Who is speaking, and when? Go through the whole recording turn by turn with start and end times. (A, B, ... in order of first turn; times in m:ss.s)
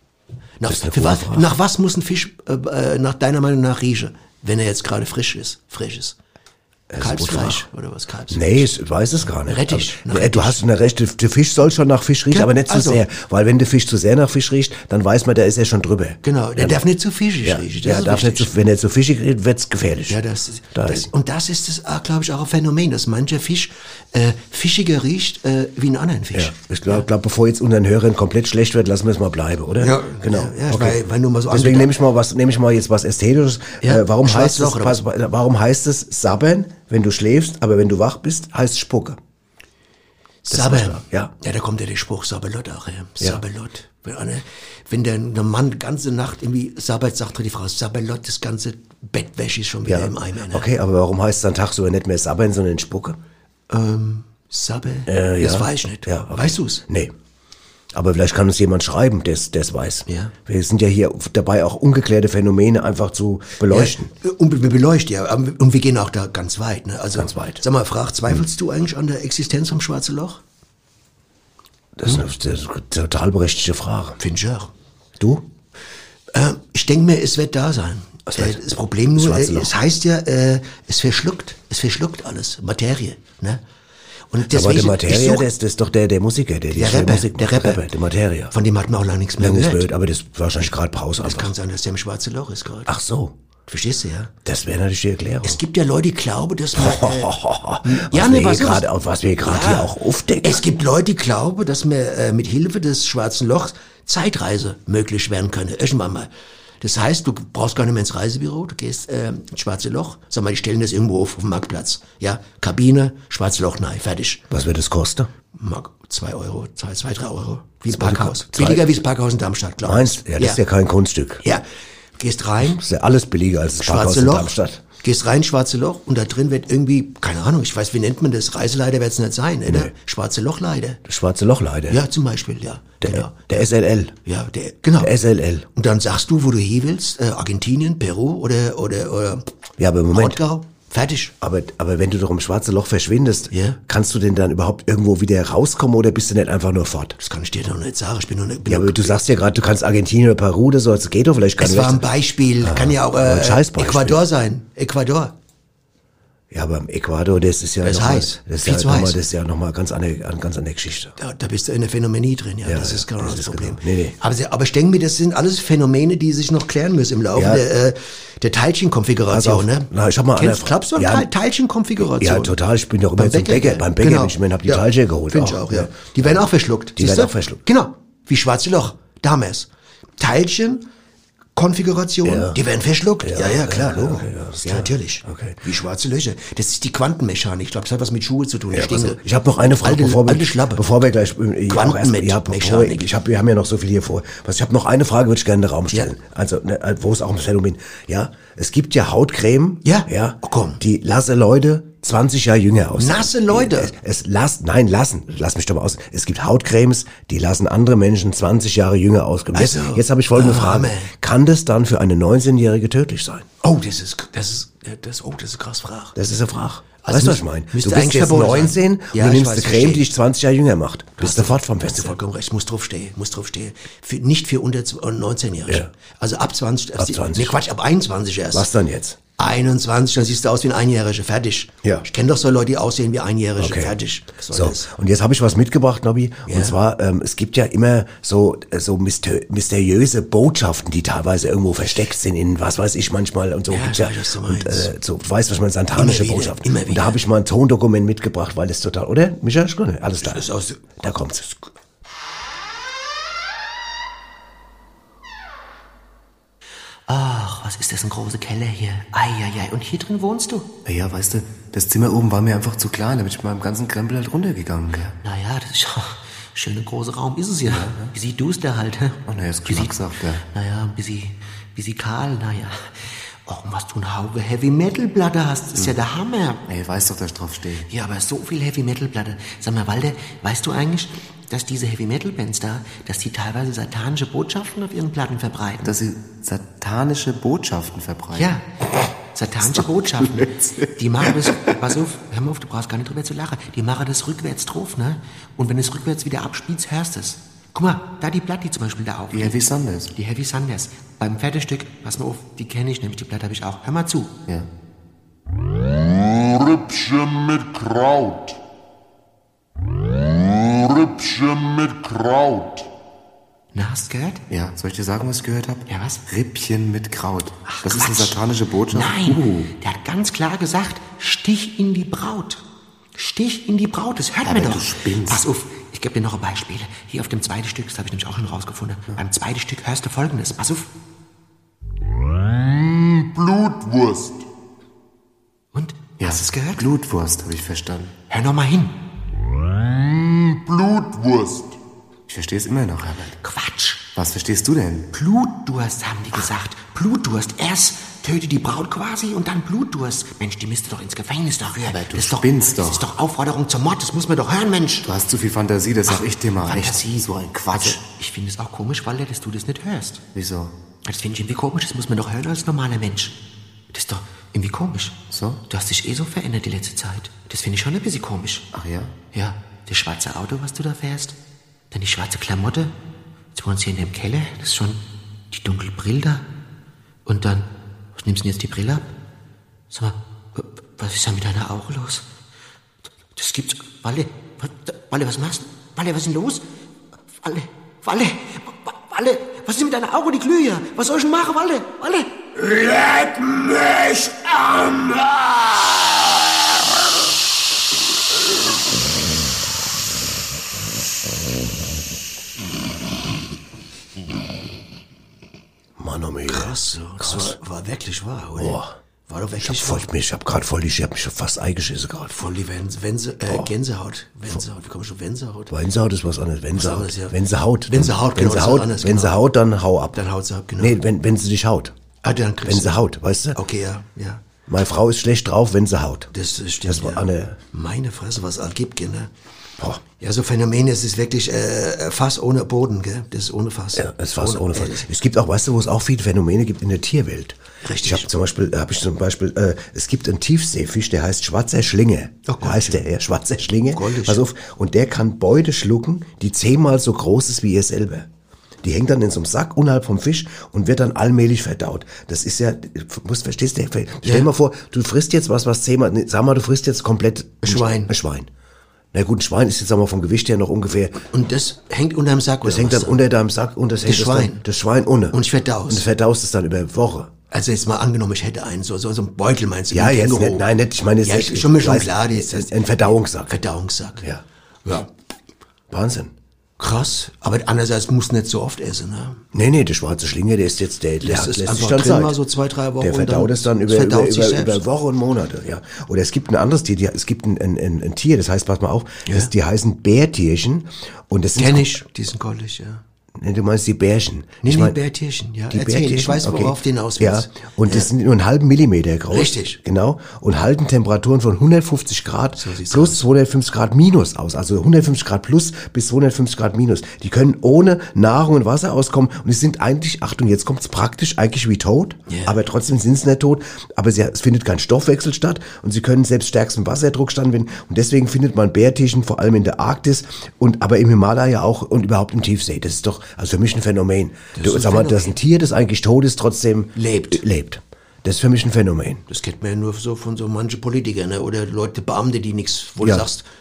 0:00.6-0:06.2 A
0:00.7-0:01.5 B
0:06.9-0:07.6 B
0:07.0-0:08.7 A
0:08.3-0:16.8 B
0:09.5-0:10.6 A
0:12.3-0:13.0 A
0:16.2-0:18.5 A
0:17.4-0:20.2 B
0:20.1-0:27.1 A
0:20.8-0:21.1 B
0:26.3-0:39.2 B
0:29.8-0:31.9 A
0:33.8-0:35.0 A
0:40.4-0:50.7 A
0:40.5-0:41.3 B
0:49.9-0:53.2 B
0:53.7-0:56.8 A
0:55.1-0:57.1 B
0:57.9-1:04.1 B
1:00.1-1:00.3 A
1:03.7-1:10.4 A
1:07.2-1:07.6 B
1:12.0-1:14.2 B
1:14.2-1:14.7 A
1:16.3-1:23.6 A
1:18.3-1:18.6 B
1:19.2-1:19.7 B
1:24.3-1:25.5 A
1:24.5-1:28.5 B
1:26.7-1:27.8 A
1:28.5-1:29.8 A
1:29.4-1:31.5 B
1:31.2-1:32.9 A
1:32.9-1:33.3 B
1:33.7-1:34.3 A
1:34.4-1:35.6 B
1:35.4-1:38.9 A
1:36.8-1:40.6 B
1:39.4-1:39.9 A
1:40.4-1:46.3 A
1:46.8-1:54.4 A
1:54.5-1:55.3 B
1:55.6-2:00.6 A
1:57.9-1:58.8 B
1:59.8-2:01.4 B
2:02.2-2:02.8 A
2:02.7-2:04.8 B
2:03.8-2:11.0 A
2:09.7-2:09.9 B
2:11.1-2:12.0 B
2:11.9-2:13.6 A
2:13.0-2:14.2 B
2:14.3-2:15.1 A
2:15.0-2:15.7 B
2:15.8-2:19.4 A
2:19.8-2:20.4 B
2:20.1-2:21.3 A
2:21.4-2:27.2 B
2:23.5-2:23.8 A
2:27.2-2:29.2 A
2:28.7-2:32.0 B
2:31.6-2:35.4 A
2:32.6-2:34.2 B
2:36.5-2:41.2 B
2:37.8-2:39.2 A
2:41.2-2:52.6 A
2:42.6-2:44.2 B
2:47.4-2:47.6 B
2:49.3-2:51.3 B
2:52.0-2:56.4 B
2:53.2-2:59.7 A
2:57.0-2:57.6 B
3:00.2-3:00.8 A
3:01.6-3:09.2 A
3:02.2-3:02.6 B
3:03.2-3:05.6 B
3:08.7-3:33.5 B
3:09.8-3:10.8 A
3:11.7-3:13.1 A
3:19.8-3:20.8 A
3:23.0-3:23.9 A
3:29.5-3:31.1 A
3:33.6-3:36.2 A
3:36.2-3:42.2 B
3:37.0-3:40.0 A
3:41.2-3:48.7 A
3:47.0-3:47.6 B
3:48.5-3:49.2 B
3:49.4-3:54.9 A
3:53.6-3:54.0 B
3:54.5-4:10.5 B
3:56.5-3:56.8 A
4:03.7-4:04.9 A
4:06.0-4:07.2 A
4:10.2-4:10.8 A
4:11.0-4:11.6 B
4:17.1-4:20.7 C
4:20.9-4:25.2 D
4:25.2-4:29.2 C
4:27.7-4:28.1 D
4:29.3-4:30.4 D
4:30.5-4:32.8 C
4:33.5-4:36.6 C
4:36.7-4:37.9 D
4:37.9-4:45.9 C
4:45.8-4:48.6 D
4:49.4-4:50.5 C
4:49.6-4:51.7 D
4:51.0-4:59.5 C
4:59.3-5:00.1 D
5:00.2-5:04.3 C
5:06.1-5:08.6 E
5:10.4-5:12.9 E
5:13.8-5:14.4 C
5:14.5-5:19.7 D
5:15.9-5:16.2 C
5:17.9-5:18.3 C
5:18.9-5:22.6 C
5:23.2-5:30.9 C
5:24.4-5:25.4 D
5:32.8-5:34.4 E
5:35.8-5:36.7 C
5:36.2-5:38.2 D
5:38.3-5:38.9 A
5:40.0-5:41.8 E
5:42.3-5:43.4 D
5:43.4-5:44.0 C
5:44.1-5:45.1 D
5:45.1-5:55.0 C
5:51.8-5:53.0 D
5:55.0-5:58.0 D
5:56.7-6:00.2 C
6:00.3-6:00.7 D
6:01.1-6:03.4 C
6:03.9-6:05.2 C
6:05.3-6:05.6 D
6:05.7-6:08.6 C
6:08.7-6:09.2 D
6:09.4-6:11.4 C
6:11.9-6:12.9 C
6:13.6-6:15.0 C
6:15.5-6:16.4 C
6:17.3-6:17.7 C
6:18.2-6:19.1 C
6:21.0-6:22.2 C
6:23.4-6:26.6 C
6:27.5-6:28.5 C
6:29.1-6:32.2 C
6:29.4-6:31.0 A
6:32.8-6:34.3 A
6:46.0-6:47.6 B
6:46.5-6:50.1 A
6:48.6-6:48.9 B
6:49.6-6:52.4 B
6:52.3-6:55.7 A
6:55.7-7:00.2 B
6:56.8-6:57.4 A
6:57.9-6:59.4 A
7:00.2-7:01.0 A
7:00.8-7:01.9 B
7:02.2-7:03.0 A
7:02.7-7:03.6 B
7:03.6-7:04.4 A
7:04.7-7:06.3 B
7:06.3-7:09.3 A
7:06.9-7:07.6 B
7:10.2-7:15.0 A
7:14.0-7:28.3 B
7:17.8-7:18.3 A
7:22.5-7:23.0 A
7:23.9-7:24.4 A
7:28.8-7:38.5 B
7:37.6-7:38.1 A
7:39.1-7:41.2 B
7:41.3-7:43.2 A
7:42.6-7:47.3 B
7:44.0-7:44.6 A
7:45.3-7:46.0 A
7:47.5-7:50.7 A
7:49.9-7:53.5 B
7:51.2-7:54.2 A
7:55.9-7:56.3 B
7:56.8-7:59.4 A
7:59.5-8:02.4 B
8:01.2-8:04.8 A
8:03.0-8:11.9 B
8:11.6-8:13.0 A
8:13.4-8:15.0 B
8:14.6-8:18.1 A
8:15.7-8:49.2 B
8:19.3-8:19.8 A
8:22.6-8:23.2 A
8:32.3-8:32.6 A
8:44.6-8:45.4 A
8:47.0-8:47.4 A
8:49.3-8:53.4 A